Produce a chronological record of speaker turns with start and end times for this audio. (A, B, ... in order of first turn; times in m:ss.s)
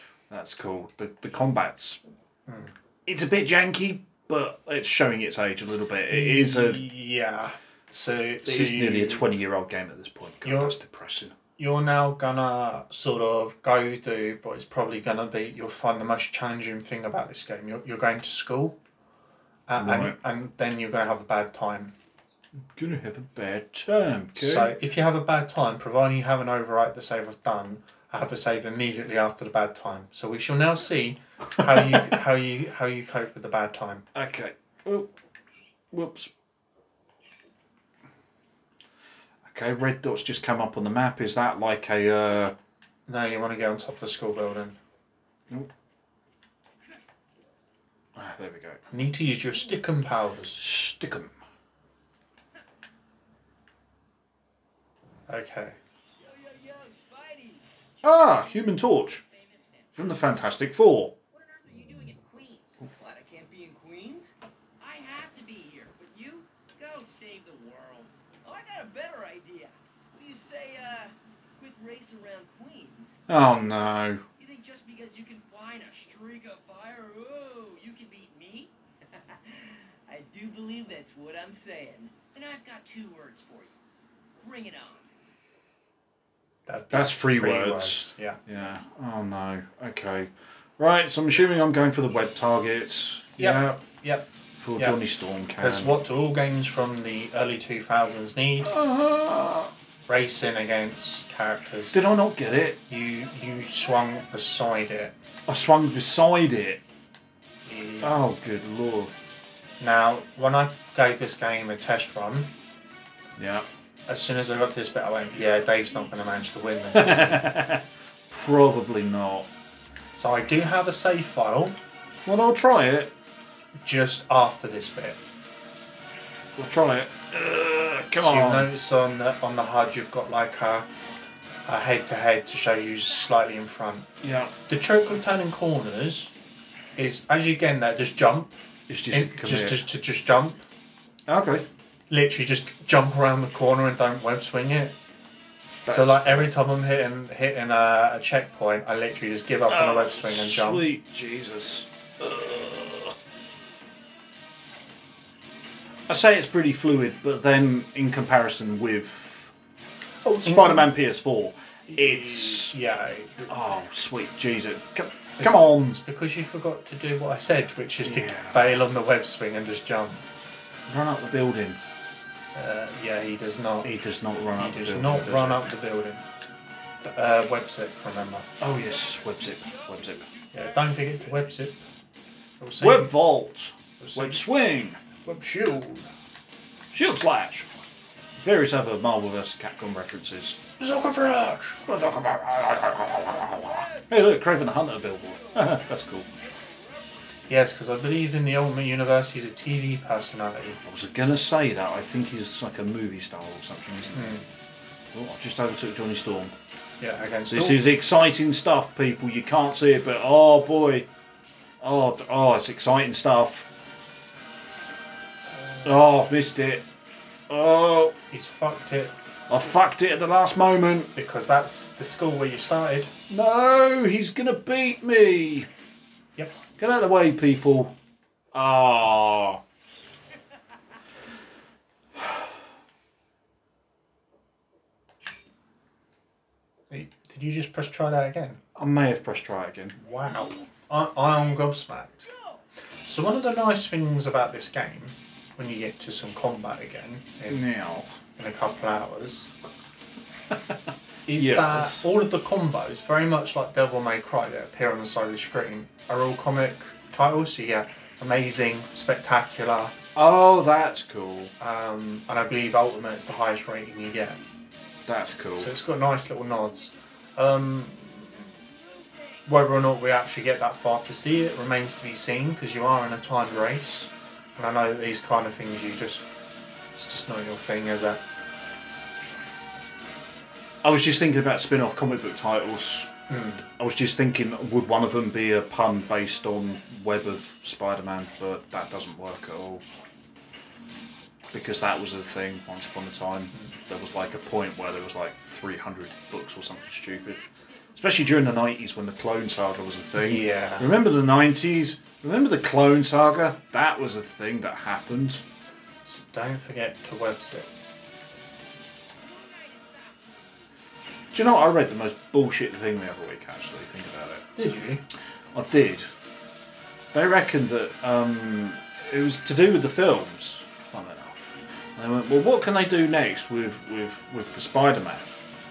0:00.3-0:02.0 A
0:02.5-0:02.7 B
0:03.1-0:06.9 A
0:06.1-0:09.3 B
0:08.4-0:11.4 A
0:10.4-0:10.8 B
0:11.6-0:18.8 B
0:19.7-0:21.9 B
0:19.8-0:20.2 A
0:22.7-0:24.7 A
0:24.4-0:34.0 B
0:34.2-0:35.1 A
0:35.9-0:36.3 A
0:39.4-0:42.6 A
0:43.1-0:44.8 B
0:48.2-0:48.8 A
0:48.9-0:50.6 B
0:50.6-0:51.3 A
0:55.3-0:55.8 B
0:56.2-0:58.6 C
0:58.0-0:59.2 A
0:59.2-1:00.0 C
1:00.0-1:01.1 A
1:01.3-1:04.3 C
1:04.8-1:13.2 C
1:13.3-1:14.2 A
1:14.4-1:23.8 C
1:24.4-1:25.1 C
1:26.7-1:28.4 B
1:26.9-1:33.8 A
1:33.4-1:35.0 B
1:34.6-1:36.0 A
1:35.6-1:38.8 B
1:38.6-1:39.7 A
1:40.1-1:42.0 B
1:41.9-1:42.8 A
1:42.9-1:45.2 B
1:45.5-1:46.8 A
1:47.6-1:48.2 B
1:48.0-1:49.1 A
1:49.8-1:52.5 B
1:53.4-1:53.7 A
1:54.1-1:57.5 B
1:56.9-1:59.5 A
2:00.2-2:01.8 B
2:02.3-2:03.1 A
2:03.8-2:05.2 B
2:06.6-2:08.7 A
2:08.2-2:10.9 B
2:11.7-2:14.1 B
2:14.2-2:14.5 A
2:14.7-2:16.3 B
2:17.0-2:18.6 B
2:18.9-2:19.8 A
2:19.1-2:20.6 B
2:21.3-2:21.7 A
2:22.1-2:25.0 B
2:25.8-2:26.5 A
2:25.9-2:30.9 B
2:29.7-2:33.2 A
2:36.1-2:39.5 A
2:40.2-2:40.9 B
2:40.4-2:42.8 A
2:41.9-2:43.5 B
2:43.5-2:46.0 A
2:45.4-2:50.3 B
2:48.0-2:48.8 A
2:50.9-2:51.8 A
2:52.6-2:53.9 B
2:53.8-2:55.7 A
2:54.6-2:56.3 B
2:57.0-2:58.5 B
2:58.6-3:00.3 A
2:59.7-3:00.3 C
3:00.5-3:01.8 B
3:02.6-3:03.2 B
3:02.8-3:05.2 A
3:04.0-3:04.4 B
3:05.2-3:06.1 B
3:06.9-3:07.7 A
3:08.4-3:10.6 A
3:10.8-3:11.8 B
3:11.8-3:16.3 A
3:17.5-3:20.8 B
3:20.8-3:24.4 A
3:24.1-3:24.5 B
3:25.1-3:26.6 A
3:27.0-3:27.8 B
3:27.5-3:31.1 A
3:31.8-3:33.7 A
3:35.5-3:35.9 B
3:35.8-3:36.9 A
3:37.5-3:38.2 A
3:38.3-3:39.1 B
3:39.5-3:41.1 A
3:41.2-3:43.1 B
3:43.3-3:45.7 A
3:46.8-3:48.0 A
3:48.5-3:49.6 A
3:56.9-3:58.6 B
3:58.8-4:00.0 A
4:00.0-4:02.3 B
4:03.0-4:07.6 B
4:07.5-4:08.2 A
4:08.4-4:09.5 B
4:10.5-4:12.1 A
4:11.3-4:20.0 B
4:20.2-4:21.5 A
4:21.6-4:24.4 B
4:25.1-4:25.7 A
4:25.6-4:28.4 B
4:29.5-4:36.2 B
4:37.0-4:38.2 B
4:40.8-4:43.1 A
4:43.3-4:43.6 B
4:43.7-4:49.8 A
4:51.5-4:57.4 A
4:58.0-5:05.4 A
5:00.2-5:00.9 B
5:06.0-5:07.7 B
5:09.2-5:10.2 C
5:11.3-5:14.5 A
5:14.6-5:15.0 B
5:15.5-5:16.1 A
5:17.1-5:25.3 A